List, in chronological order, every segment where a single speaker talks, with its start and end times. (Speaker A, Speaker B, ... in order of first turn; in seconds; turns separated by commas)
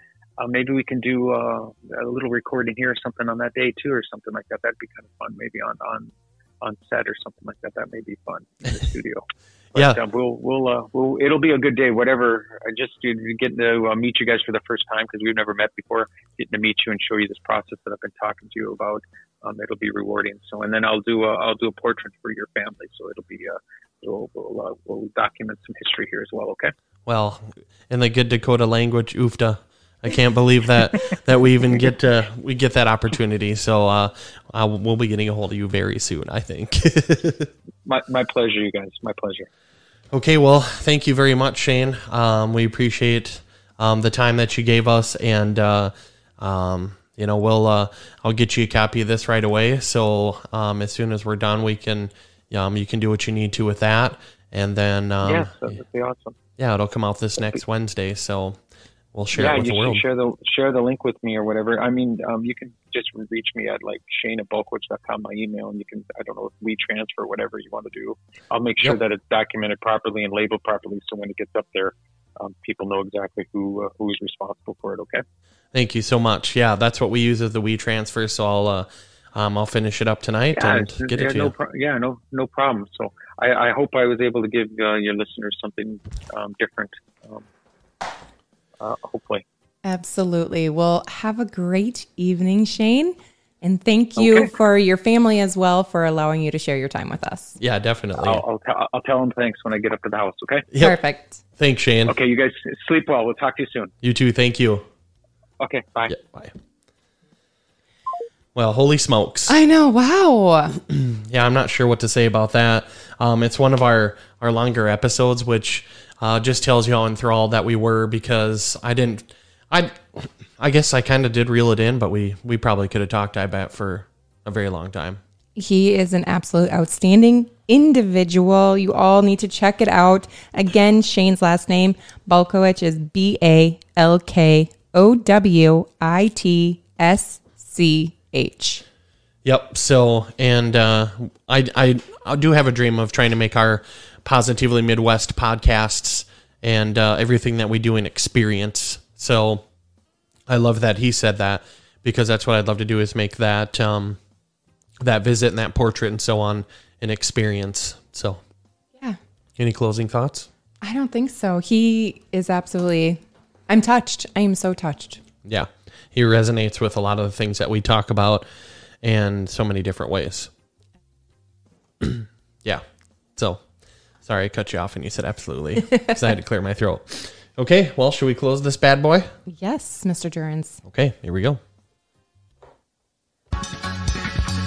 Speaker A: 0.4-26.7, Speaker B: 27.1-37.5, Speaker A: 37.8-39.5, Speaker B: 40.1-55.5, Speaker A: 55.2-56.4, Speaker B: 56.6-58.6, Speaker B: 59.1-60.0, Speaker A: 59.3-75.2, Speaker B: 75.7-81.5, Speaker A: 80.5-87.5, Speaker A: 88.8-89.4, Speaker C: 89.8-97.6, Speaker A: 94.2-94.5, Speaker B: 97.6-98.4, Speaker A: 98.2-100.7, Speaker C: 100.8-101.4, Speaker B: 101.6-102.1, Speaker A: 102.0-103.9, Speaker B: 104.0-104.8, Speaker A: 105.6-106.2, Speaker B: 106.1-106.5, Speaker B: 108.5-109.5, Speaker C: 109.5-110.8, Speaker B: 110.9-125.2, Speaker C: 125.5-138.8, Speaker B: 139.4-149.6, Speaker B: 150.5-154.2, Speaker B: 155.0-158.4, Speaker B: 159.6-160.5, Speaker C: 160.8-165.2, Speaker B: 165.4-168.5, Speaker B: 169.0-170.5, Speaker B: 172.0-172.8, Speaker B: 173.3-173.6, Speaker B: 174.2-179.3, Speaker C: 179.5-180.8, Speaker B: 180.8-181.6